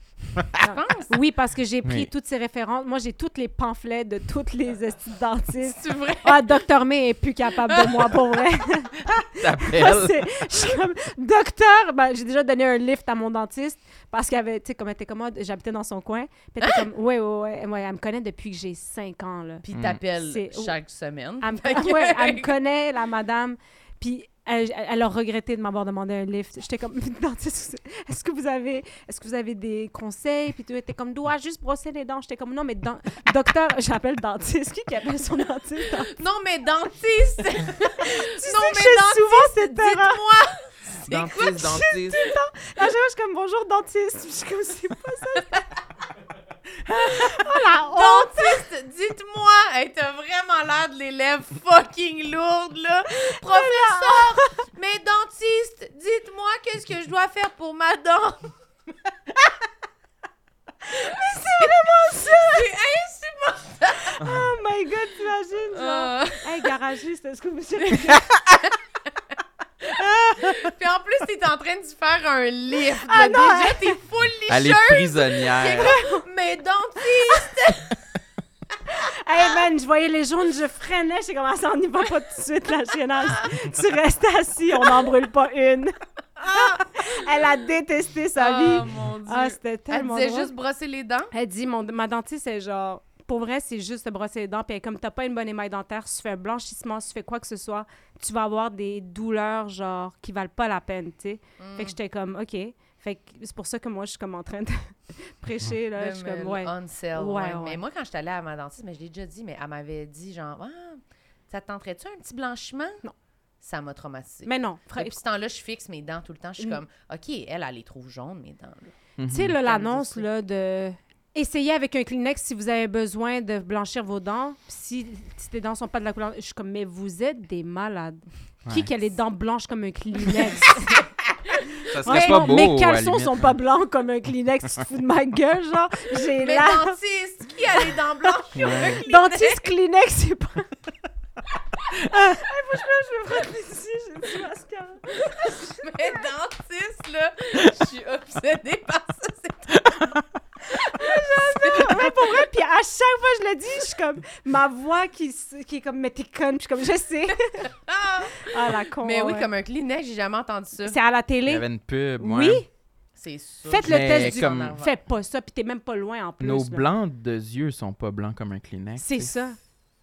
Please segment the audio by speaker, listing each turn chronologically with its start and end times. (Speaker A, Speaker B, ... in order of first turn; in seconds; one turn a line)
Speaker A: 0.4-20.7
Speaker B: 0.6-1.1
Speaker C: 1.8-2.1
Speaker B: 5.6-6.5
Speaker B: 7.7-8.1
Speaker C: 9.2-10.4
Speaker B: 19.6-22.5
Speaker C: 19.7-20.0
Speaker A: 21.4-36.2
Speaker B: 36.1-41.8
Speaker A: 38.0-40.2
Speaker C: 41.0-42.3
Speaker A: 41.4-45.7
Speaker A: 47.0-48.6
Speaker B: 47.9-58.5
Speaker A: 53.4-54.5
Speaker A: 60.9-62.7
Speaker B: 61.6-64.2
Speaker A: 64.0-68.3
Speaker B: 65.7-66.7
Speaker B: 69.8-78.0
Speaker A: 73.0-74.0
Speaker C: 74.5-75.9
Speaker A: 75.7-76.2
Speaker A: 78.9-86.0
Speaker B: 86.4-87.0
Speaker A: 86.5-90.5
Speaker B: 88.4-91.3
Speaker A: 91.3-107.8
Speaker B: 101.6-101.9
Speaker B: 106.0-113.0
Speaker B: 113.6-118.9
Speaker A: 114.5-115.2
Speaker C: 119.2-119.5
Speaker A: 119.3-131.1
Speaker B: 119.6-120.2
Speaker C: 131.9-133.5
Speaker A: 131.9-137.0
Speaker B: 132.1-132.5
Speaker B: 136.4-139.7
Speaker C: 138.6-139.0
Speaker A: 138.7-140.7
Speaker A: 141.9-146.2
Speaker B: 145.3-149.8
Speaker C: 149.8-150.2
Speaker A: 150.8-157.7
Speaker B: 150.9-152.1
Speaker B: 157.6-161.0
Speaker A: 158.4-159.5
Speaker A: 160.8-161.7
Speaker C: 161.4-162.6
Speaker A: 162.2-162.7
Speaker B: 163.2-164.9
Speaker A: 163.7-166.8
Speaker C: 163.8-164.8
Speaker C: 166.4-169.3
Speaker A: 169.0-169.6